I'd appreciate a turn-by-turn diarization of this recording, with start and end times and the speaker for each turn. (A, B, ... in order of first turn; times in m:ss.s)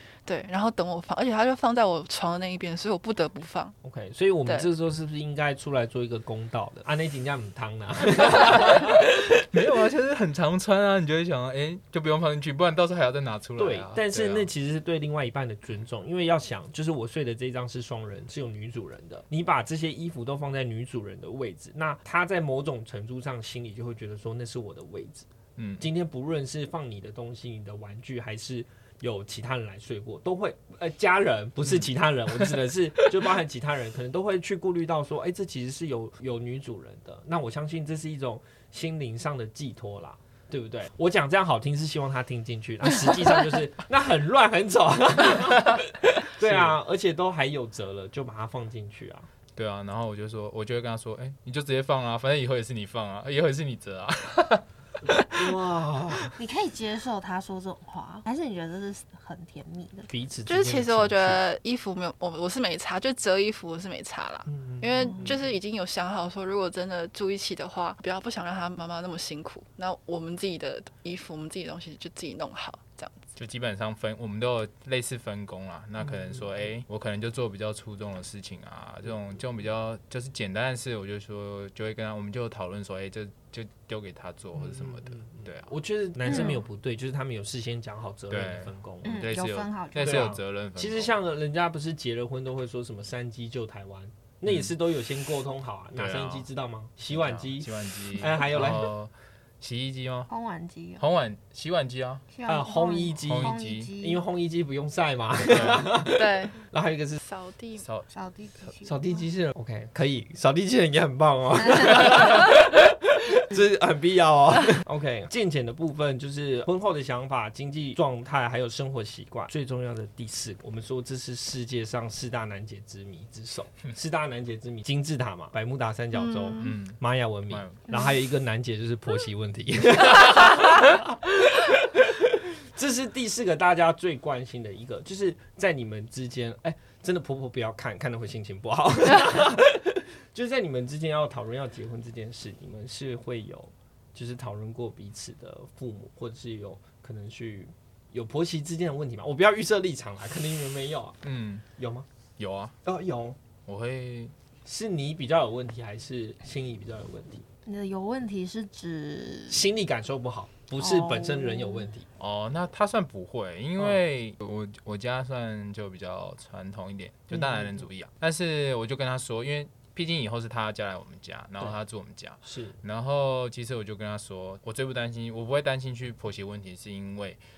0:00.2-0:03.8 A
0:03.8-0:09.5 B
0:08.2-0:08.8 C
0:09.5-0:14.5 C
0:13.6-0:49.3 B
0:25.6-0:25.8 C
0:46.4-0:46.8 C
0:49.5-0:55.4 C
0:55.3-0:56.4 B
0:56.4-1:00.1 D
1:00.1-1:01.4 B
1:00.5-1:13.2 A
1:04.5-1:05.4 B
1:13.4-1:25.7 C
1:24.6-1:29.3 B
1:26.2-1:26.6 D
1:28.3-1:31.1 C
1:29.0-1:30.3 D
1:30.0-1:38.9 B
1:34.4-1:34.7 C
1:36.0-1:36.5 C
1:37.0-1:40.3 C
1:40.3-1:41.0 D
1:41.0-1:42.2 C
1:42.3-1:44.2 D
1:42.4-1:47.2 B
1:43.2-1:43.9 C
1:45.4-1:45.9 C
1:46.1-1:46.6 A
1:47.2-1:47.9 A
1:47.8-1:48.1 C
1:48.1-1:49.3 D
1:48.8-2:31.2 B
1:51.8-1:52.1 D
2:06.2-2:06.7 A
2:06.6-2:08.0 C
2:31.2-2:31.6 C
2:31.8-2:32.0 B
2:32.4-2:32.8 C
2:32.8-2:33.4 B
2:33.6-2:34.3 C
2:34.6-2:37.4 B
2:37.6-2:39.6 D
2:39.5-2:42.1 B
2:40.8-2:41.9 D
2:42.2-2:57.4 C
2:47.3-2:47.8 B
2:52.4-2:52.8 B